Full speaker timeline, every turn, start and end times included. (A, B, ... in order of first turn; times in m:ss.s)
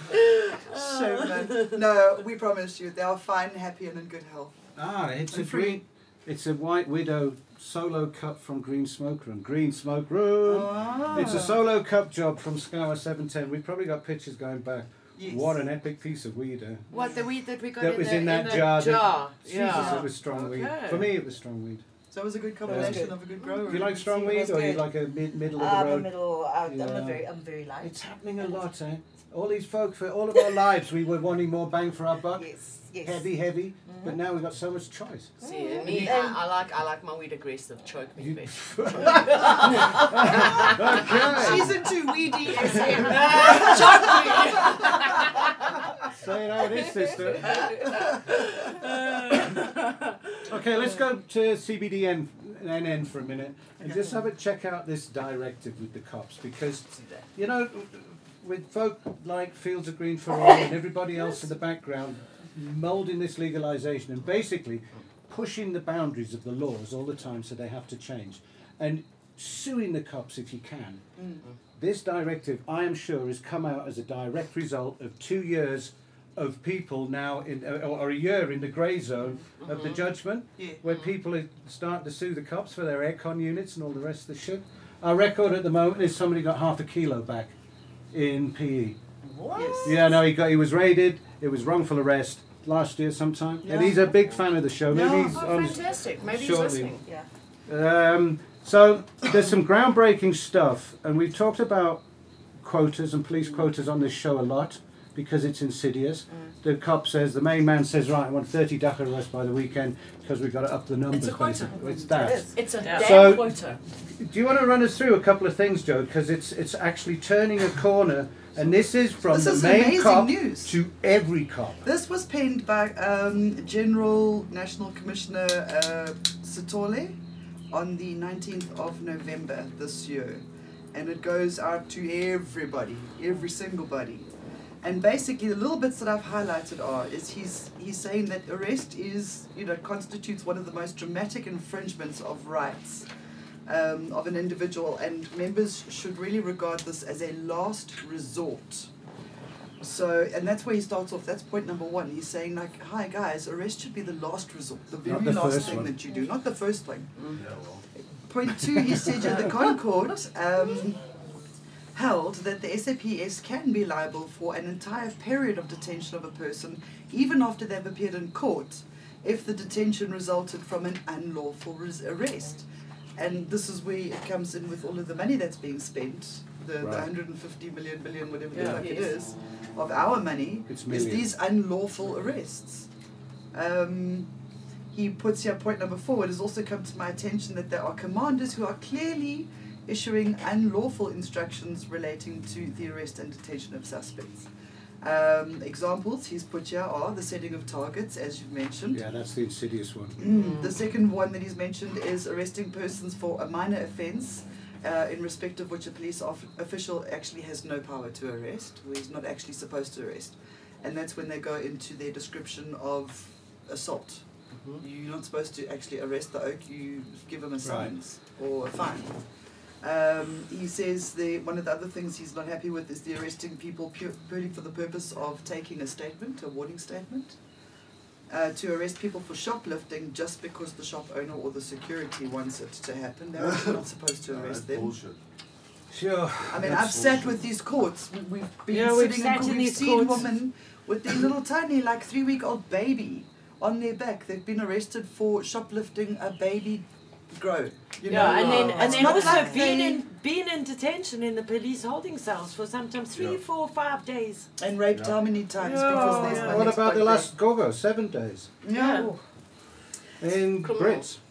0:00.7-0:04.6 A
0:00.7-0:01.8 B
0:04.8-0:16.9 C
0:05.3-0:05.8 A
0:10.4-0:11.6 A
0:15.2-0:15.6 A
0:16.9-0:21.1 B
0:16.9-0:17.5 D
0:17.8-0:21.8 C
0:18.1-0:20.0 D
0:22.1-0:24.1 A
0:22.6-0:32.5 C
0:22.7-0:23.2 E
0:23.8-0:24.9 E
0:25.5-0:28.6 E
0:32.3-0:33.3 E
0:33.0-0:35.3 C
0:33.8-0:34.2 E
0:35.4-0:41.7 D
0:35.4-0:36.4 E
0:38.2-0:41.8 C
0:40.3-0:45.4 A
0:42.4-0:45.7 D
0:42.7-0:43.4 C
0:46.1-0:47.7 C
0:47.1-0:48.0 D
0:48.7-0:49.7 B
0:49.5-0:50.0 D
0:50.4-1:11.0 C
0:53.8-0:54.1 A
0:56.9-0:57.2 D
1:11.2-1:11.4 A
1:11.8-1:27.5 C
1:19.6-1:20.1 D
1:28.1-1:29.0 C
1:29.2-1:30.1 D
1:29.5-1:30.1 A
1:29.8-1:37.0 C
1:33.6-1:34.2 A
1:34.8-1:35.7 A
1:35.0-1:37.1 D
1:37.7-1:42.0 C
1:42.6-1:53.6 C
1:51.1-1:51.7 D
1:51.9-1:52.5 E
1:52.5-1:53.8 D
1:52.8-1:53.2 B
1:54.1-2:01.8 C
1:59.2-2:00.8 A
2:01.8-2:07.2 A
2:07.7-2:14.3 A
2:14.8-2:23.1 A
2:23.6-2:28.9 A
2:29.8-2:37.3 A
2:35.0-2:36.0 C
2:37.3-2:37.8 F
2:38.0-2:41.0 A
2:38.7-2:39.3 C
2:41.9-3:02.9 A
2:56.8-2:57.1 C
2:58.5-2:59.0 B
2:58.6-2:59.2 D
3:00.7-3:01.3 C
3:03.5-3:04.3 A
3:04.9-3:14.5 A
3:15.0-3:19.0 A
3:18.9-3:20.2 C
3:20.2-3:34.2 A
3:20.2-3:20.8 D
3:34.5-3:34.8 D
3:34.8-3:39.2 A
3:37.6-3:37.9 C
3:39.8-3:47.4 A
3:48.3-3:55.0 A
3:53.4-3:55.2 F
3:55.9-3:57.3 C
3:56.5-4:10.0 A
3:56.6-3:57.4 F
3:58.7-4:00.3 B
4:08.0-4:14.5 B
4:08.1-4:09.8 E
4:13.1-4:13.4 F
4:14.6-4:17.3 A
4:14.9-4:15.4 F
4:15.6-4:16.7 B
4:16.3-4:18.5 C
4:18.6-4:19.2 A
4:18.7-4:19.1 B
4:20.2-4:21.2 C
4:20.6-4:21.1 D